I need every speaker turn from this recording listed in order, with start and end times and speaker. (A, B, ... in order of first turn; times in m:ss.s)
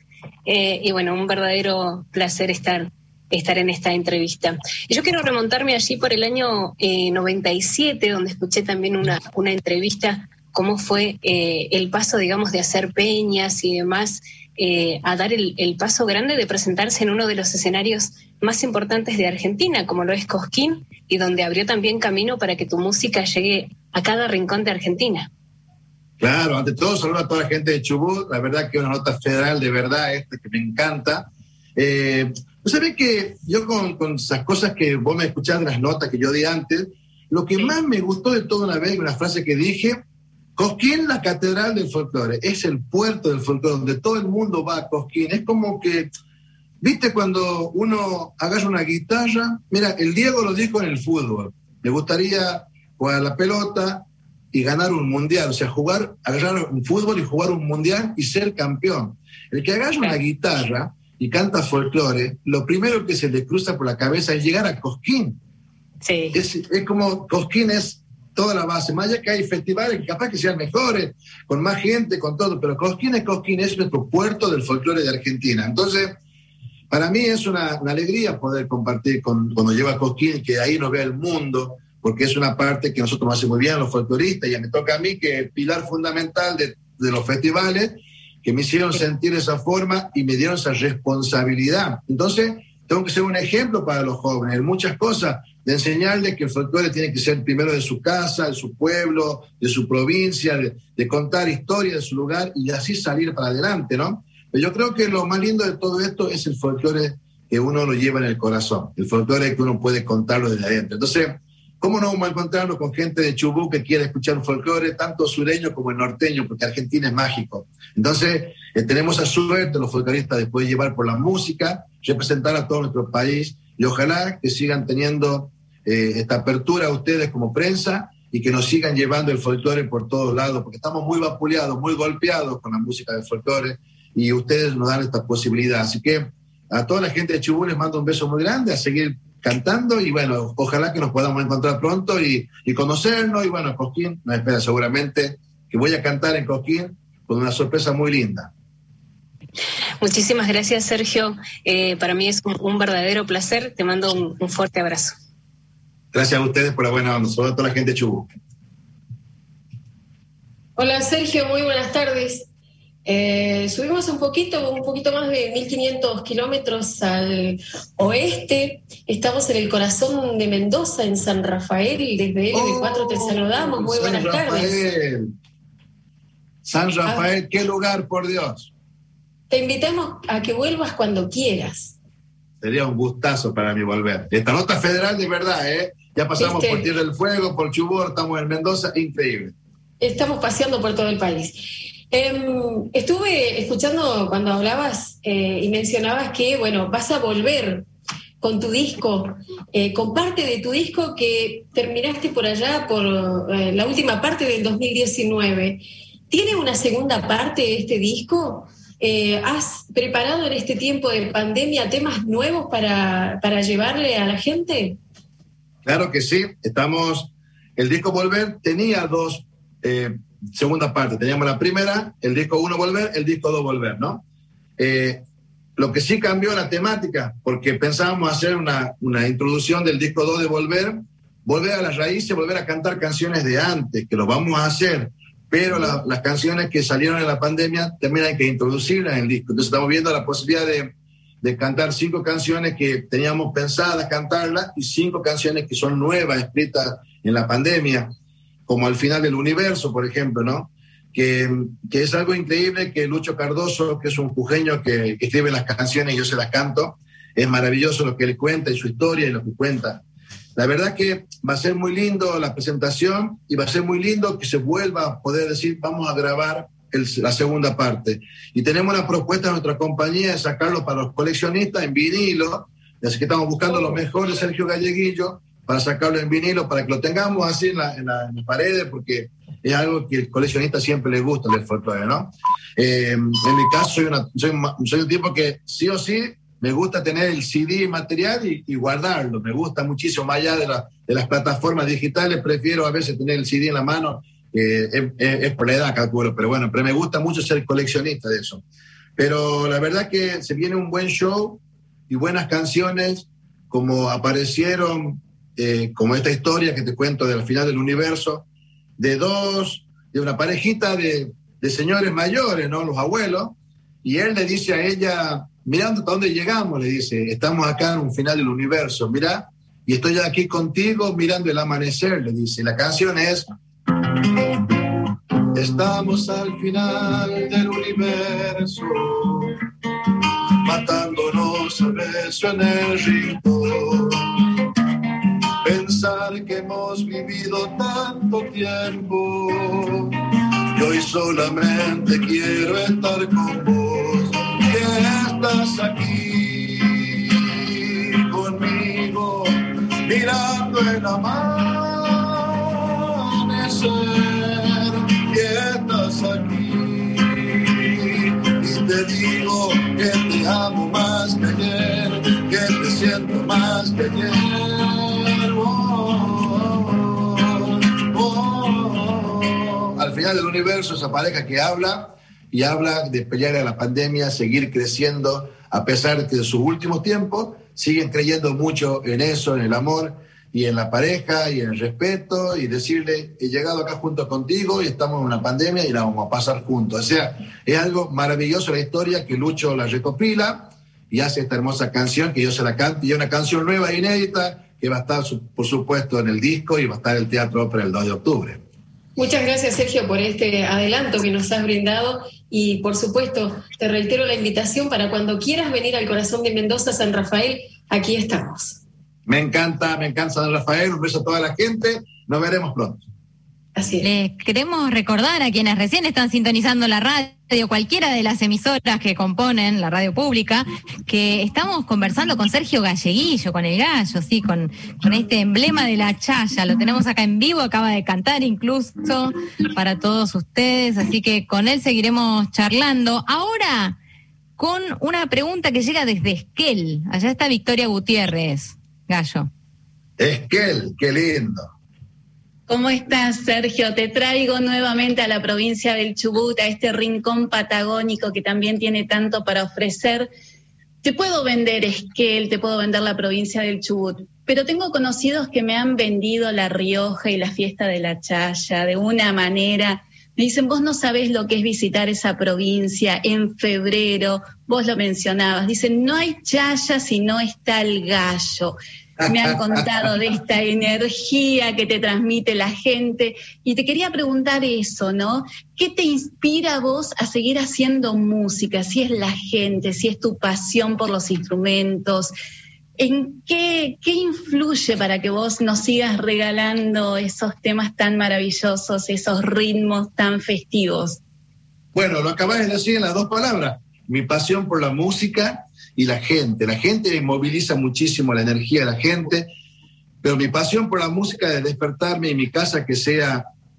0:00.4-0:25.3 A
0:26.2-0:40.0 B
0:40.6-0:46.1 B
0:46.8-1:05.4 B
1:06.0-1:06.3 A
1:06.3-1:16.2 B
1:16.9-2:28.5 B
2:30.0-2:35.2 A
2:36.1-2:38.3 B
2:40.8-2:42.5 C
2:43.0-2:54.8 C
2:52.5-2:55.3 B
2:56.6-2:58.7 B
2:59.5-3:01.9 C
3:02.6-3:09.5 B
3:06.4-3:06.9 C
3:10.0-3:11.6 C
3:12.1-3:17.9 C
3:18.4-3:35.0 C
3:35.8-3:44.2 B
3:44.8-3:45.2 B
3:45.8-4:08.1 B
4:08.7-4:20.0 B
4:20.6-4:58.6 B
4:59.2-5:08.4 B
5:09.0-5:23.5 B
5:25.5-5:29.6 B
5:30.6-5:34.5 B
5:35.6-5:40.2 B
5:40.7-6:38.6 B
6:39.2-6:48.8 C
6:49.2-6:53.0 B
6:53.8-6:54.1 C
6:54.0-7:14.0 D
7:14.6-7:19.5 D
7:20.2-7:21.7 B
7:22.7-7:30.3 E
7:31.0-8:02.3 E
7:49.2-7:50.1 B
8:03.0-8:11.2 E
8:11.9-8:19.5 B
8:20.2-8:23.4 B